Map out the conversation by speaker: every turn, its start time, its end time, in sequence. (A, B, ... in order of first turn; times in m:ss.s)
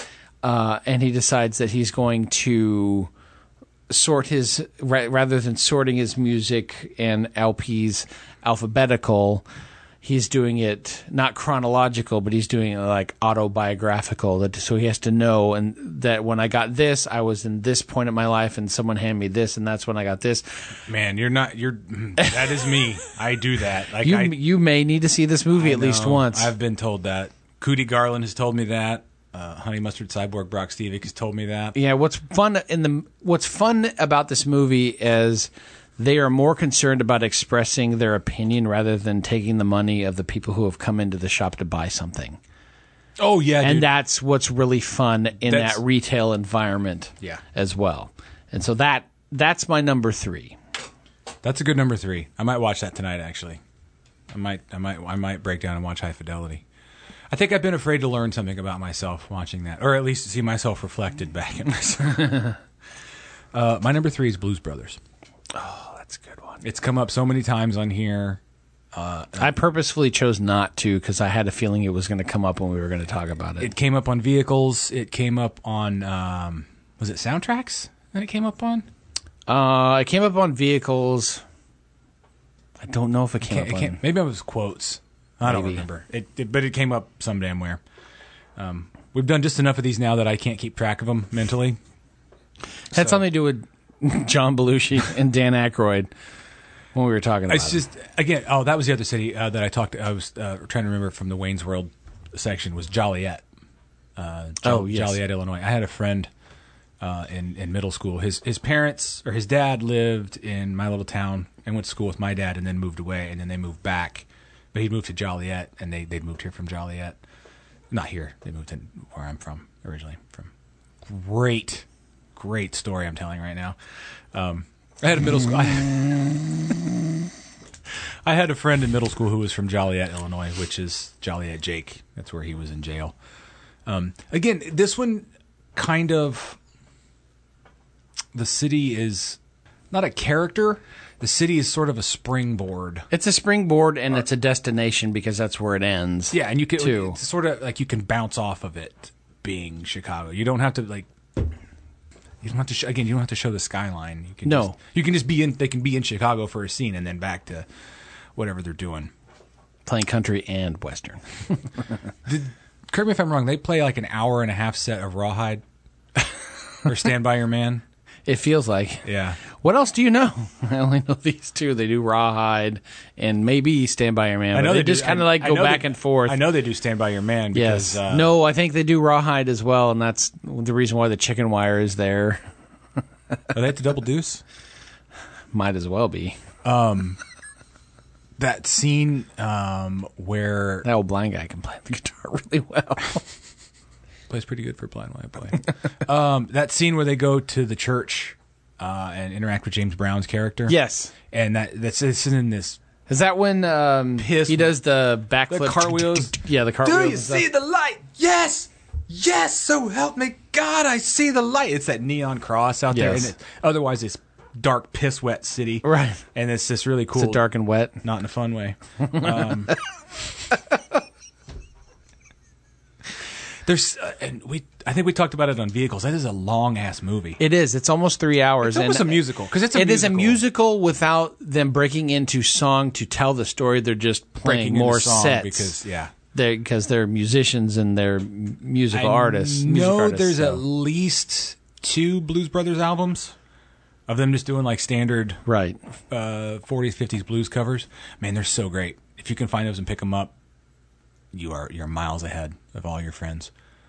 0:00.4-0:03.1 A
0:03.9-0:09.4 A
0:10.0-0:20.4 A
0:20.9-0:24.4 B
0:22.2-0:22.6 A
0:24.0-0:26.5 A
0:25.5-0:31.8 B
0:31.7-0:42.4 A
0:43.2-0:43.9 B
0:43.6-0:50.6 A
0:45.5-0:45.8 B
0:51.4-0:53.6 B
0:54.3-0:56.6 B
0:57.3-1:02.5 B
1:02.2-1:02.6 A
1:03.5-1:05.0 B
1:05.5-1:06.6 A
1:06.6-1:08.4 B
1:08.9-1:09.6 B
1:09.4-1:13.7 A
1:13.6-1:18.9 B
1:19.5-1:21.4 A
1:22.8-1:24.0 A
1:23.4-1:27.8 B
1:25.4-1:25.8 A
1:28.6-1:31.8 B
1:32.9-1:36.1 A
1:32.9-1:33.2 B
1:36.9-1:37.8 A
1:37.5-1:43.4 B
1:44.2-1:46.3 B
1:44.6-1:45.2 A
1:47.0-1:57.2 B
1:57.9-2:00.5 B
2:01.0-2:03.8 B
2:04.3-2:06.4 B
2:08.2-2:13.1 B
2:13.8-2:16.6 B
2:18.3-2:19.4 B
2:19.9-2:23.0 B
2:23.1-2:27.2 A
2:26.3-2:31.1 B
2:32.4-2:37.7 B
2:34.4-2:34.8 A
2:38.3-2:39.1 B
2:39.8-2:41.9 A
2:42.2-2:45.6 B
2:46.8-2:47.8 B
2:48.3-2:56.4 A
2:49.0-2:49.4 B
2:54.5-2:58.3 B
2:57.5-3:02.4 A
3:03.5-3:04.4 B
3:05.5-3:06.4 A
3:06.6-3:07.2 B
3:08.4-3:10.9 B
3:10.8-3:13.2 A
3:14.3-3:20.8 B
3:20.7-3:21.1 A
3:21.3-3:22.8 B
3:23.1-3:27.4 A
3:24.2-3:24.8 B
3:25.5-3:37.4 B
3:32.9-3:33.3 A
3:35.8-3:36.2 A
3:37.2-3:38.0 A
3:38.0-3:39.7 B
3:43.6-3:47.4 B
3:47.4-3:55.7 A
3:48.6-3:50.4 B
3:54.4-3:56.1 B
3:56.3-4:00.6 A
3:58.9-4:03.3 B
4:04.1-4:05.4 B
4:05.4-4:05.8 A
4:06.1-4:10.3 B
4:11.3-4:13.5 B